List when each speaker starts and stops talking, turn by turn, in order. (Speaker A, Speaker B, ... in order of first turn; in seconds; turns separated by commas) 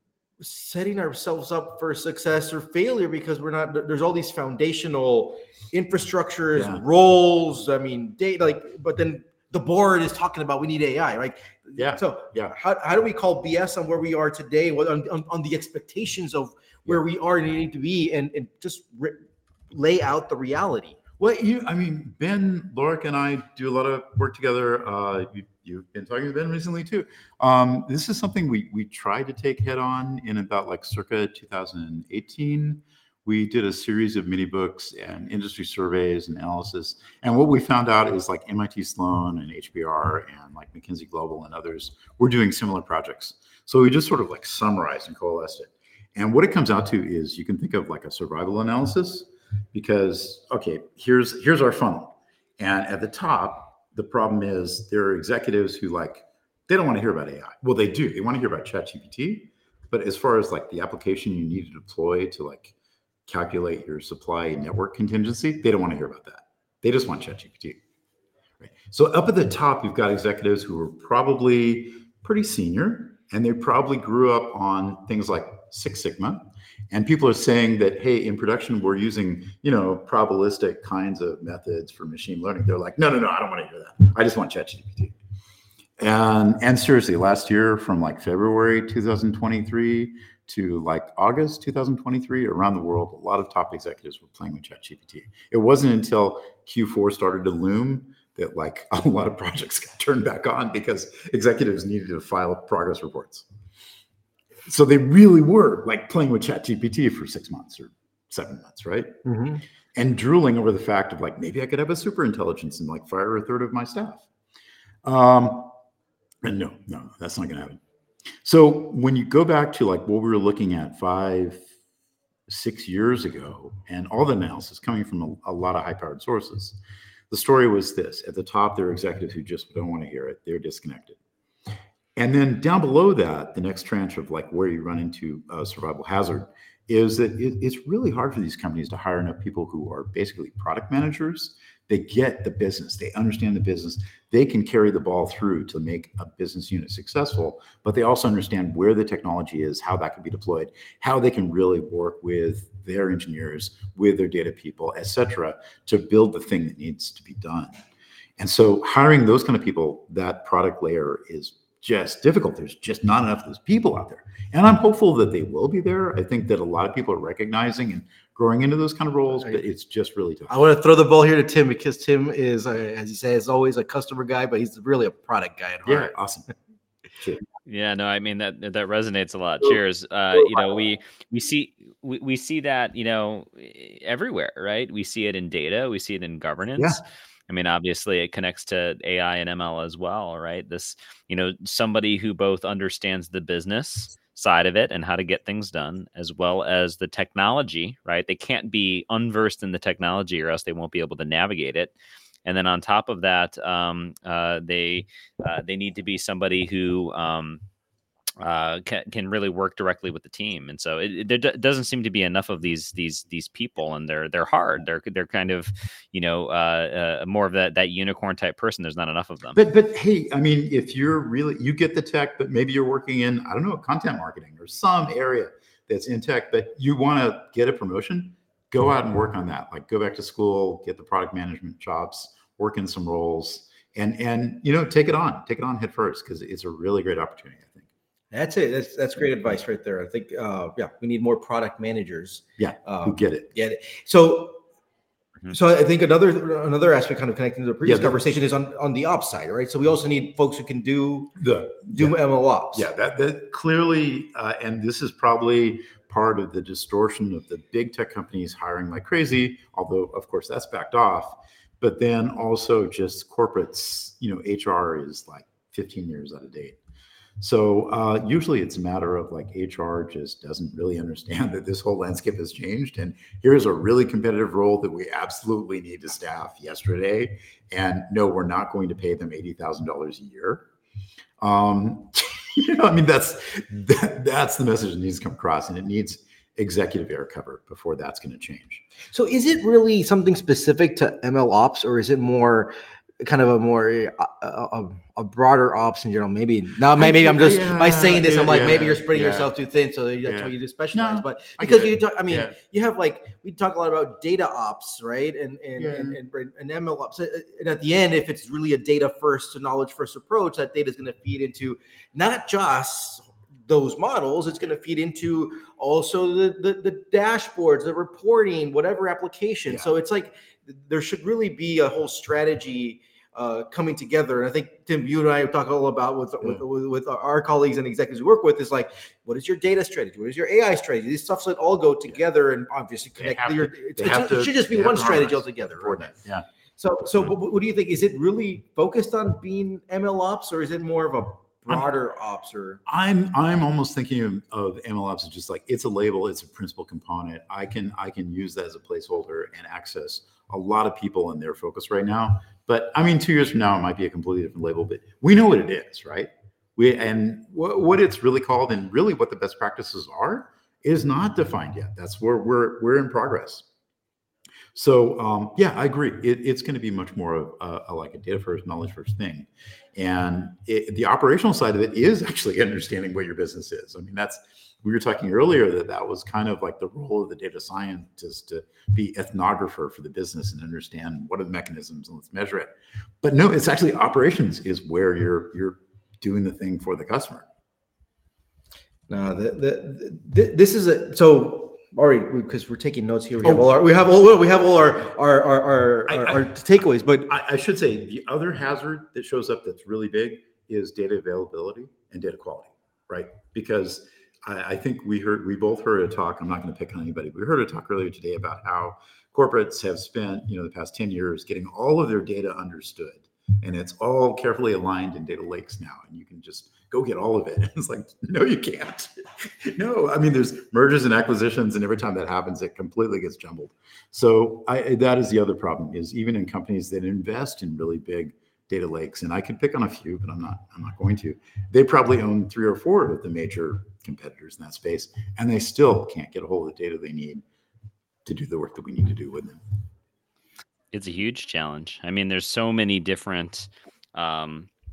Speaker A: 0.4-21.0, Speaker B: 6.5-6.8, Speaker B: 11.8-12.5, Speaker B: 21.2-62.7, Speaker B: 63.3-67.8, Speaker B: 68.6-85.2, Speaker B: 86.0-103.5, Speaker B: 104.7-109.1, Speaker A: 109.2-109.6, Speaker B: 110.0-114.3, Speaker B: 115.0-115.8, Speaker B: 116.4-117.8, Speaker B: 118.4-121.7, Speaker B: 122.5-126.8, Speaker B: 127.3-131.2, Speaker B: 132.2-157.7, Speaker B: 158.4-170.6, Speaker A: 170.5-176.1, Speaker B: 175.8-176.5, Speaker B: 177.2-177.4, Speaker C: 177.7-201.9, Speaker B: 186.8-187.0, Speaker C: 202.4-207.6, Speaker C: 208.4-219.6, Speaker B: 219.6-237.9, Speaker A: 238.3-244.6, Speaker B: 242.6-243.5, Speaker A: 245.5-251.4, Speaker B: 247.8-248.2, Speaker B: 251.4-252.2, Speaker A: 251.9-252.9, Speaker B: 252.7-266.8, Speaker B: 267.4-280.7, Speaker B: 281.4-288.9, Speaker A: 289.1-336.1, Speaker B: 296.9-299.5, Speaker B: 300.2-302.6, Speaker B: 305.8-306.2, Speaker B: 333.2-336.5, Speaker A: 336.8-342.8, Speaker B: 342.9-363.7, Speaker B: 364.8-387.5, Speaker A: 389.1-397.3, Speaker B: 393.4-393.7, Speaker B: 396.1-396.5, Speaker B: 397.3-437.4, Speaker B: 438.3-439.6, Speaker C: 440.9-444.7